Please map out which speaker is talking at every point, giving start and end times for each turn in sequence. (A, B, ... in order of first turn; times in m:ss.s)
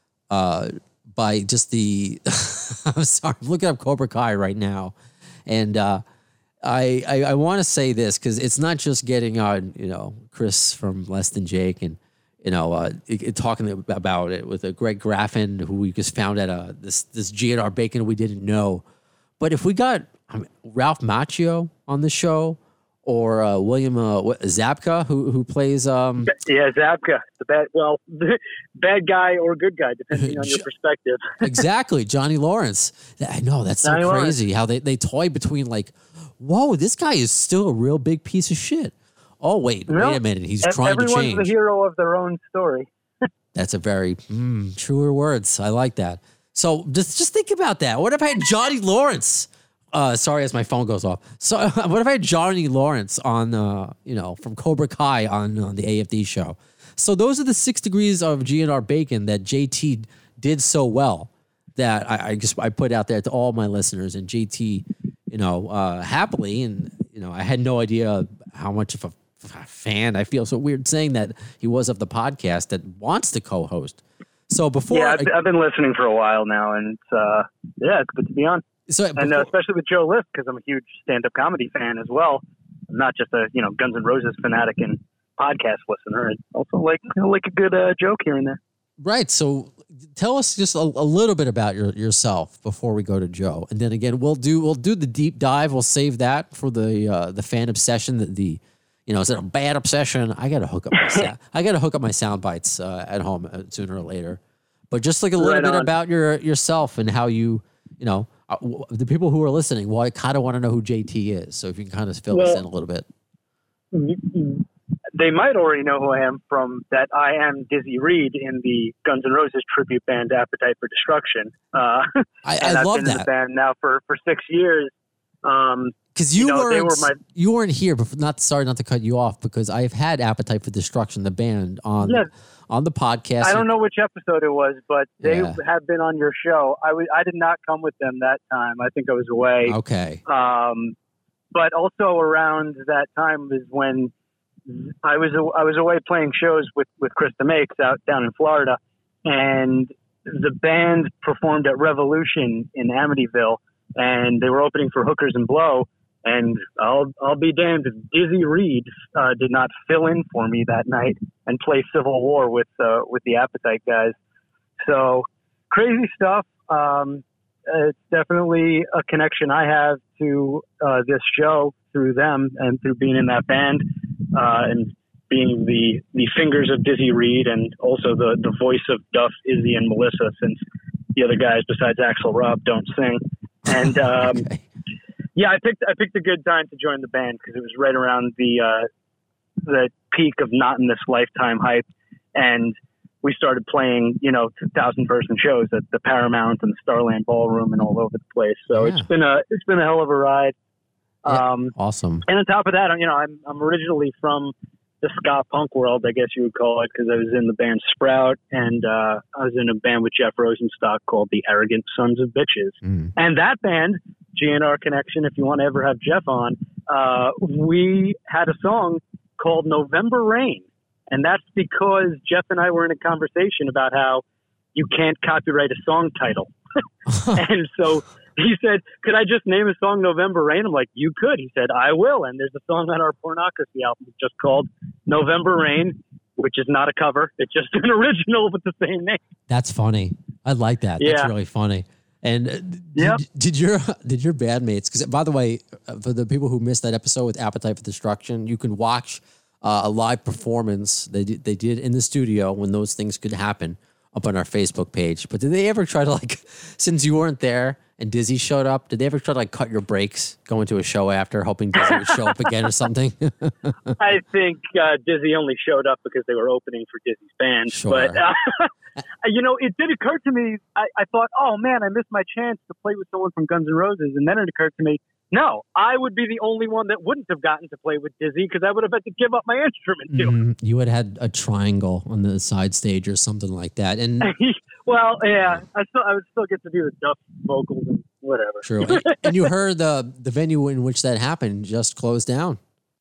0:00.3-0:04.9 A
0:05.5-0:06.0 A
0:06.6-0:18.8 A
0:19.4-0:26.3 A
0:26.3-0:31.6 B
0:30.1-0:30.6 A
0:31.4-0:41.5 A
0:33.8-0:34.4 B
0:39.9-0:42.9 B
0:43.5-1:15.3 A
1:14.9-1:18.6 B
1:18.9-1:19.5 A
1:19.2-1:28.6 B
1:29.0-1:44.4 A
1:44.9-1:53.1 A
1:45.4-1:45.9 B
1:52.3-1:52.6 B
1:53.9-2:02.0 B
2:02.4-2:03.3 A
2:02.6-2:04.9 B
2:05.4-2:07.2 B
2:06.1-2:13.7 A
2:12.0-2:12.3 B
2:13.4-2:19.8 B
2:15.2-2:15.6 A
2:19.6-2:20.2 A
2:20.3-2:20.9 B
2:21.5-2:24.1 B
2:24.7-2:44.2 B
2:44.8-3:00.6 B
3:01.1-3:04.4 B
3:03.7-3:04.6 A
3:05.4-3:08.9 B
3:09.6-3:20.5 B
3:18.7-3:19.1 A
3:21.2-3:21.7 B
3:21.3-3:22.2 A
3:22.3-3:44.2 B
3:44.7-3:46.5 B
3:47.3-3:59.2 B
3:59.5-4:23.7 A
4:01.0-4:01.3 B
4:02.9-4:03.2 B
4:21.8-4:22.1 B
4:24.0-4:28.7 B
4:27.7-4:28.2 A
4:29.2-4:40.3 B
4:40.1-4:44.3 A
4:44.2-4:49.5 B
4:48.6-4:52.6 A